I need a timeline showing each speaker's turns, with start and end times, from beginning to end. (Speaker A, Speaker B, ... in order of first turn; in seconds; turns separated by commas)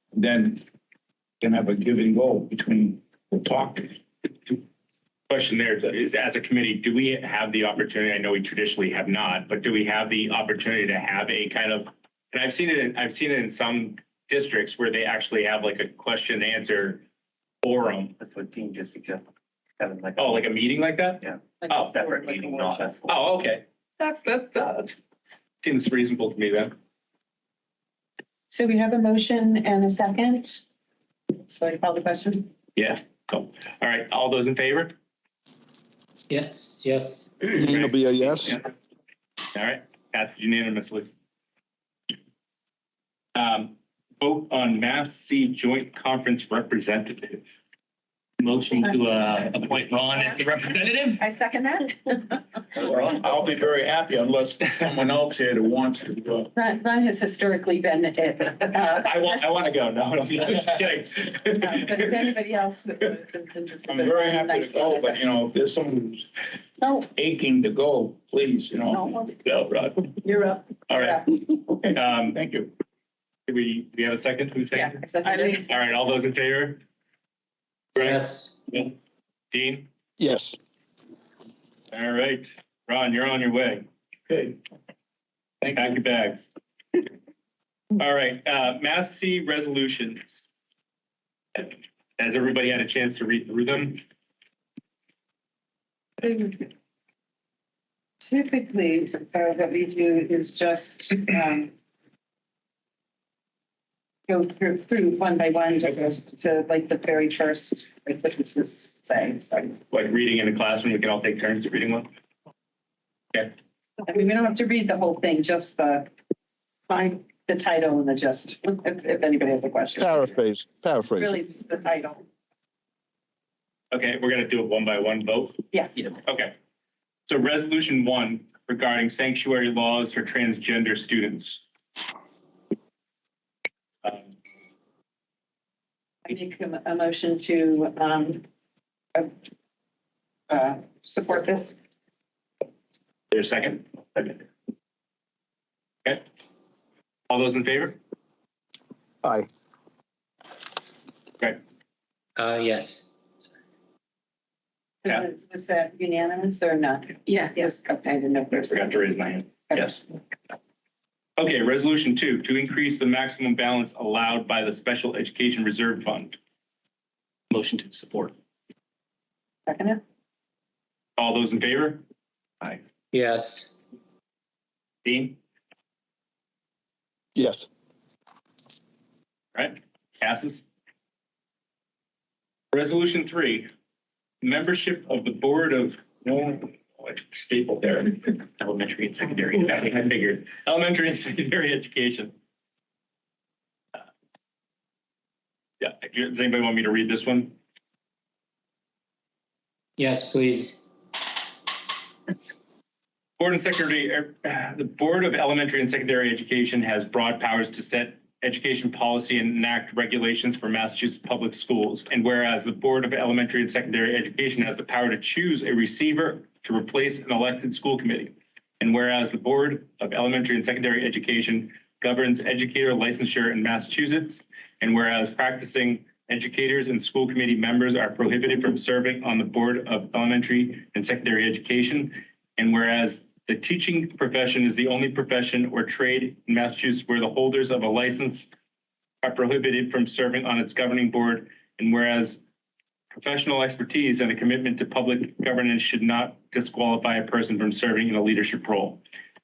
Speaker A: 0.1-0.6, Speaker A: 1.4-4.0, Speaker B: 5.3-17.0, Speaker B: 17.6-18.1, Speaker C: 18.2-19.2, Speaker C: 19.8-20.4, Speaker B: 20.1-21.9, Speaker C: 21.2-23.2, Speaker D: 21.6-22.9, Speaker B: 23.0-24.9, Speaker B: 25.6-26.7, Speaker D: 28.5-30.6, Speaker D: 31.3-32.5, Speaker B: 32.8-34.9, Speaker E: 36.3-37.3, Speaker F: 37.5-38.6, Speaker B: 39.5-41.1, Speaker B: 43.4-47.4, Speaker B: 48.4-51.1, Speaker D: 51.2-52.4, Speaker A: 52.8-56.5, Speaker D: 56.5-59.2, Speaker B: 58.9-62.0, Speaker D: 61.5-65.2, Speaker A: 63.9-66.3, Speaker D: 66.8-67.1, Speaker A: 67.1-69.1, Speaker D: 68.9-69.3, Speaker B: 69.4-70.1, Speaker D: 70.2-71.2, Speaker B: 70.9-71.3, Speaker A: 71.7-72.7, Speaker B: 71.9-72.4, Speaker B: 73.5-76.8, Speaker D: 74.7-75.7, Speaker B: 78.0-78.9, Speaker E: 78.0-78.5, Speaker B: 79.5-79.9, Speaker F: 80.2-80.6, Speaker B: 81.9-83.8, Speaker A: 84.3-84.6, Speaker B: 85.7-86.5, Speaker B: 88.0-90.5, Speaker B: 91.5-94.0, Speaker D: 96.2-96.7, Speaker D: 98.2-101.7, Speaker D: 104.3-109.8, Speaker B: 109.9-112.1, Speaker D: 114.0-116.1, Speaker D: 116.9-120.3, Speaker F: 120.0-121.4, Speaker D: 121.2-122.2, Speaker B: 123.9-126.5, Speaker D: 125.7-126.1, Speaker B: 127.3-131.6, Speaker D: 136.2-138.4, Speaker D: 140.5-141.8, Speaker B: 143.3-144.4, Speaker B: 147.3-148.0, Speaker E: 152.4-153.1, Speaker D: 155.0-160.0, Speaker B: 158.7-159.9, Speaker B: 161.4-166.4, Speaker B: 167.5-168.3, Speaker D: 169.7-170.0, Speaker B: 171.2-172.0, Speaker E: 173.1-173.7, Speaker B: 175.0-175.4, Speaker F: 177.3-177.7, Speaker B: 179.5-180.7, Speaker B: 182.7-183.7, Speaker B: 184.4-192.3, Speaker B: 195.8-197.6, Speaker E: 200.0-200.8, Speaker B: 203.4-238.5, Speaker B: 239.2-242.4, Speaker B: 243.1-249.0